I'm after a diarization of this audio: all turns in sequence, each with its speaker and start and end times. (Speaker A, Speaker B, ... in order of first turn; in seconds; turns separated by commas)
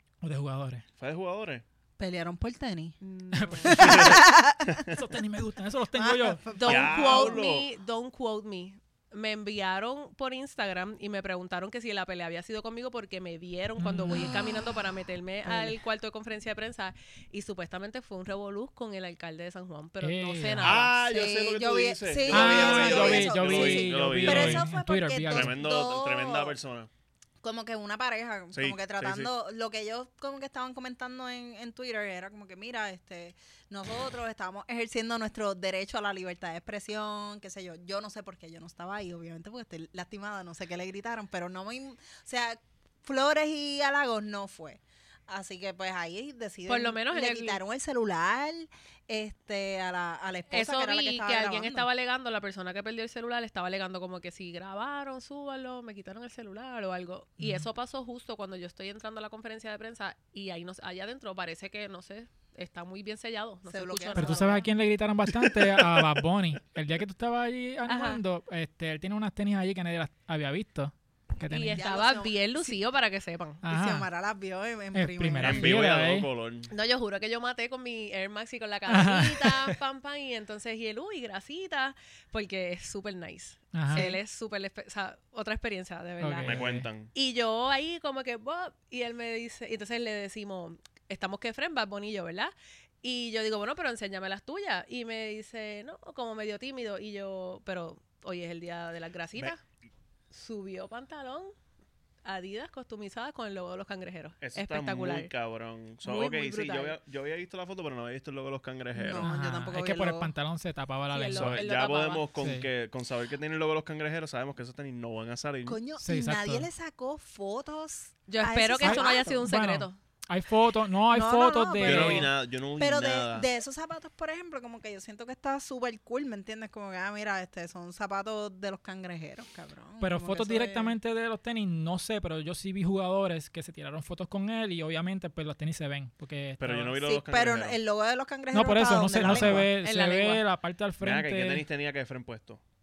Speaker A: 0.2-0.8, Speaker B: 1.0-1.6, Speaker C: 2.0-2.9, Speaker D: 3.0-4.2, Speaker A: 3.3-4.2, Speaker C: 3.6-4.9, Speaker B: 3.8-5.0, Speaker A: 4.9-6.4, Speaker C: 5.9-7.4, Speaker D: 6.5-20.9, Speaker B: 6.6-7.7, Speaker A: 13.8-14.4, Speaker C: 14.1-14.7, Speaker C: 15.4-15.8, Speaker A: 20.0-20.8, Speaker B: 20.6-24.6, Speaker C: 21.1-26.5, Speaker A: 22.3-25.6, Speaker B: 25.3-26.9, Speaker C: 27.4-51.9, Speaker B: 28.5-29.3, Speaker D: 46.7-47.6, Speaker D: 50.5-64.5, Speaker A: 57.4-57.6, Speaker C: 63.7-64.7, Speaker A: 64.1-71.8, Speaker D: 67.9-68.2, Speaker D: 71.5-73.6, Speaker C: 71.8-72.8, Speaker A: 73.6-74.0, Speaker C: 73.7-75.8, Speaker A: 74.9-76.3, Speaker B: 75.4-76.7, Speaker D: 76.7-99.6, Speaker A: 78.9-79.8, Speaker A: 83.7-84.1, Speaker C: 83.9-84.2, Speaker A: 86.2-86.9, Speaker B: 86.4-87.1, Speaker D: 100.3-101.5, Speaker D: 102.2-105.3, Speaker B: 104.4-109.3, Speaker D: 106.0-107.0, Speaker C: 108.9-110.3, Speaker A: 109.1-111.6, Speaker D: 111.1-112.2, Speaker B: 111.3-115.8, Speaker A: 112.4-112.7, Speaker C: 115.7-119.5, Speaker A: 116.0-116.7, Speaker D: 118.3-120.0, Speaker A: 118.8-122.3, Speaker C: 121.1-130.9, Speaker B: 121.8-123.5, Speaker A: 130.0-136.9, Speaker B: 136.6-137.8, Speaker C: 137.0-139.7, Speaker A: 138.5-141.7, Speaker B: 139.3-139.6, Speaker D: 139.3-140.4, Speaker B: 141.0-142.6